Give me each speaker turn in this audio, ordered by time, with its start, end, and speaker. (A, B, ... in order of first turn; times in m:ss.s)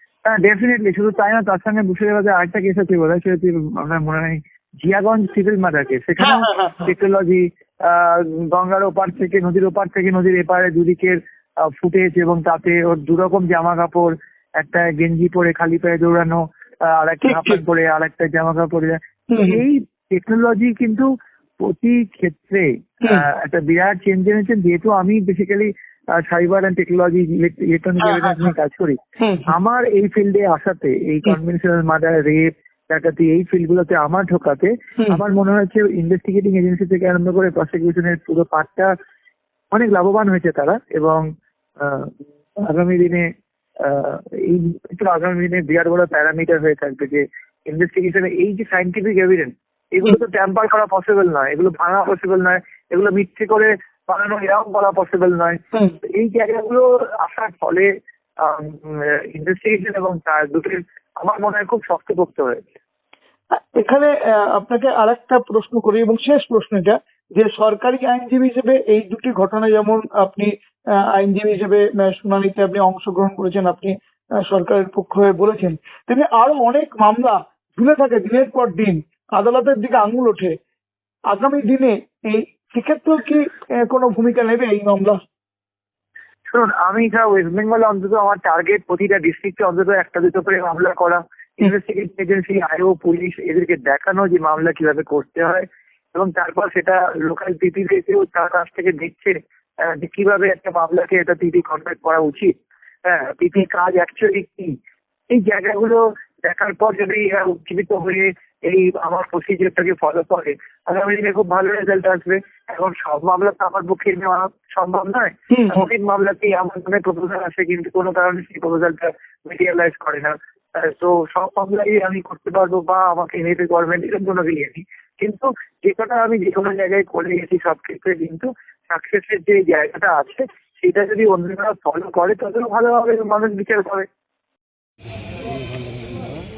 0:00.2-0:21.1 A
0:06.2-0:06.9 B
0:17.2-0:17.6 B
0:19.3-0:19.6 B
0:21.6-0:38.9 A
0:28.0-0:28.5 B
0:29.2-0:29.5 B
0:39.7-0:41.2 A
0:41.8-0:43.3 A
0:43.8-0:57.9 A
0:58.4-1:02.6 A
1:03.8-1:10.5 B
1:11.1-1:20.6 B
1:21.3-1:25.2 B
1:26.5-1:42.5 A
1:43.0-1:44.7 A
1:45.3-2:14.1 A
1:55.5-1:55.8 B